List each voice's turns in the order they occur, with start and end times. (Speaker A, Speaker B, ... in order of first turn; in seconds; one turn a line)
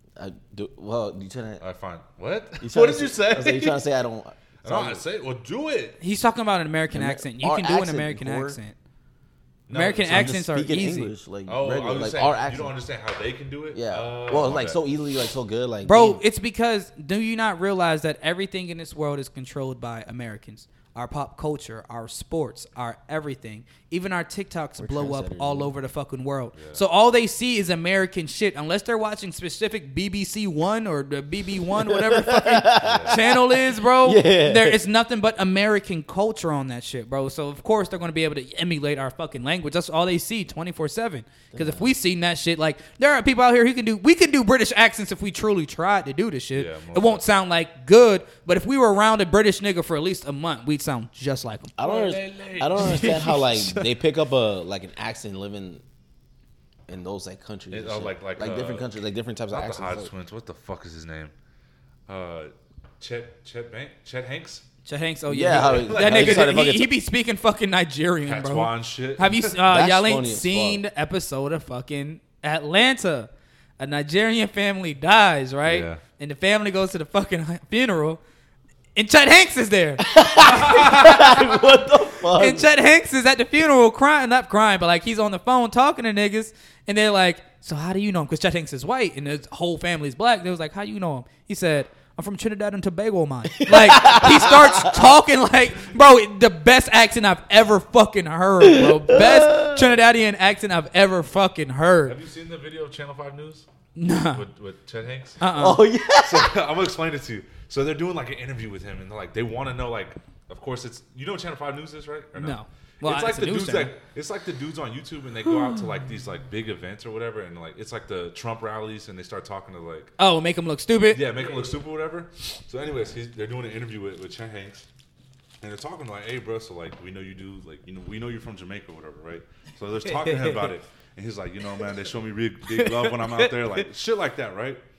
Speaker A: 0.2-1.6
Speaker B: 1.6-3.8
Speaker A: 2.6-5.0
Speaker B: 4.6-6.0
Speaker C: 6.0-8.7
Speaker A: 6.9-8.6
Speaker B: 9.7-10.4
Speaker C: 9.7-11.1
Speaker A: 10.0-12.7
Speaker B: 11.4-14.8
Speaker A: 13.7-16.2
Speaker C: 15.8-51.8
Speaker A: 24.8-25.7
Speaker A: 31.8-34.8
Speaker B: 32.8-33.2
Speaker A: 41.5-41.8
Speaker B: 46.5-47.2
Speaker A: 51.8-55.8
Speaker B: 51.8-53.2
Speaker C: 52.8-53.9
Speaker A: 56.9-60.1
Speaker B: 57.7-58.9
Speaker B: 59.5-61.3
Speaker B: 62.1-64.6
Speaker C: 64.8-78.2
Speaker A: 65.3-66.9
Speaker B: 65.5-66.5
Speaker B: 68.2-69.6
Speaker A: 69.6-70.8
Speaker B: 75.7-76.0
Speaker C: 78.9-81.6
Speaker A: 80.0-82.7
Speaker B: 80.6-81.0
Speaker C: 82.3-102.2
Speaker A: 93.6-95.1
Speaker A: 98.6-99.9
Speaker B: 102.0-103.7
Speaker C: 104.0-104.4
Speaker B: 104.3-105.4
Speaker C: 105.4-105.8
Speaker A: 105.5-106.6
Speaker B: 106.2-120.1
Speaker C: 112.3-113.9
Speaker C: 120.2-121.2
Speaker B: 121.1-124.8
Speaker B: 125.6-134.8
Speaker C: 130.1-130.7
Speaker C: 132.7-133.8